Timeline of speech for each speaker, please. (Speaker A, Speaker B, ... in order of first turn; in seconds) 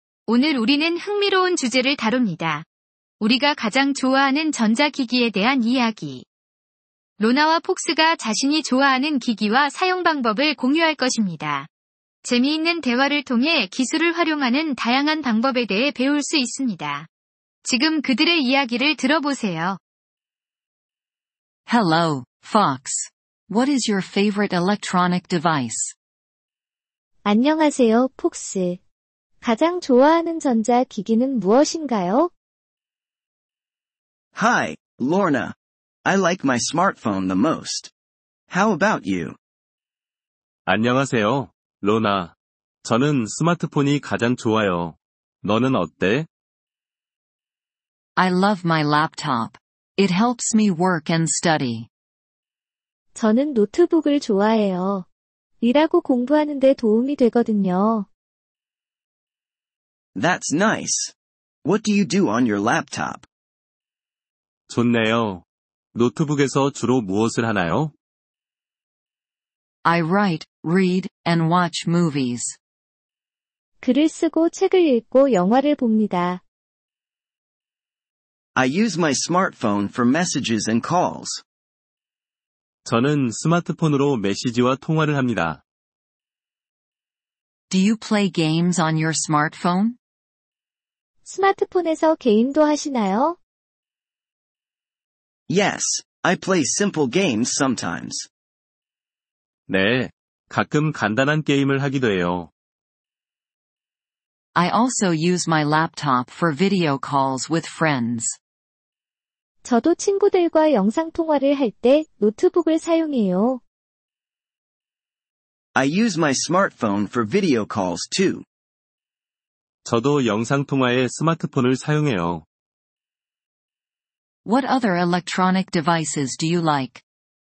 Speaker A: 0.3-2.6, 3.2-6.2, 7.2-11.7, 12.2-17.1, 17.6-19.8
Speaker B: 21.7-25.9, 48.2-51.9, 69.8-72.6, 87.7-90.0, 104.5-108.4, 124.4-127.0
Speaker C: 27.2-28.8, 29.4-32.3, 53.1-55.1, 55.6-58.1, 73.8-76.4, 91.2-93.4, 109.6-113.6
Speaker D: 34.3-37.9, 38.5-39.4, 60.1-63.2, 78.5-81.4, 95.5-98.3, 115.7-118.4
Speaker E: 40.7-46.3, 64.7-67.9, 82.8-85.6, 99.7-102.5, 119.8-122.4